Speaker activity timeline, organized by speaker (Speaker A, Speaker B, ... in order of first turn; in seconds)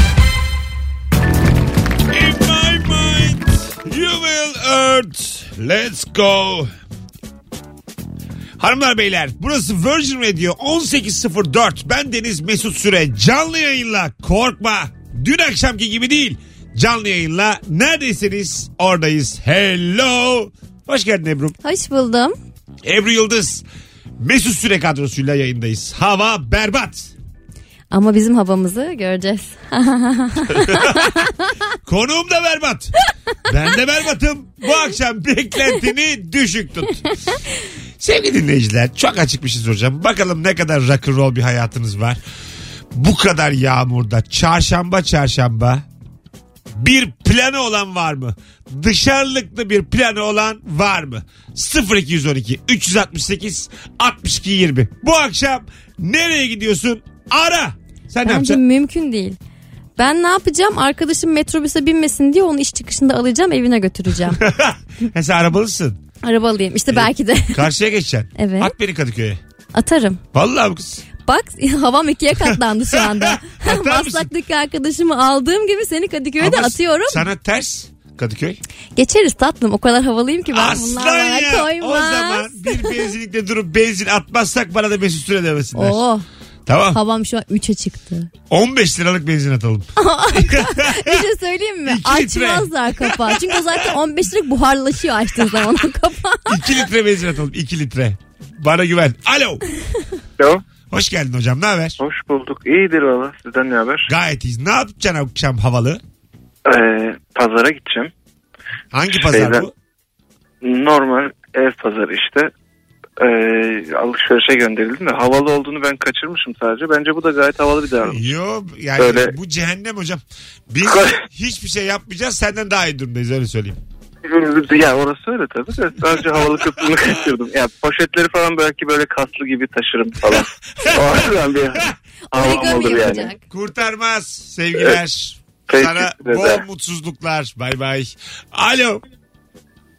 Speaker A: 2.1-6.7, 8.6-21.6, 22.8-23.6, 24.2-27.1, 30.5-31.1, 31.9-32.9, 33.5-37.0, 38.0-42.2, 42.9-45.9, 46.7-58.6, 64.3-66.0, 66.9-69.4, 70.3-71.0, 72.4-74.3, 76.4-78.6, 80.5-86.0, 86.7-87.0, 88.5-91.2, 91.9-93.9, 96.5-99.6, 100.9-102.0, 104.1-106.0, 108.9-109.7, 118.1-123.8, 130.8-131.2, 133.5-139.0
Speaker B: 21.6-22.4, 27.9-31.3, 58.2-59.4, 60.0-64.4, 66.2-67.6, 68.4-68.7, 69.7-70.2, 71.2-77.2, 79.0-83.1, 85.8-86.2, 86.9-88.3, 90.0-96.6, 132.3-133.4
Speaker C: 102.0-104.1, 106.7-108.1, 109.2-109.7, 110.6-112.5, 113.2-118.2, 119.0-119.3, 124.3-133.3, 135.7-136.6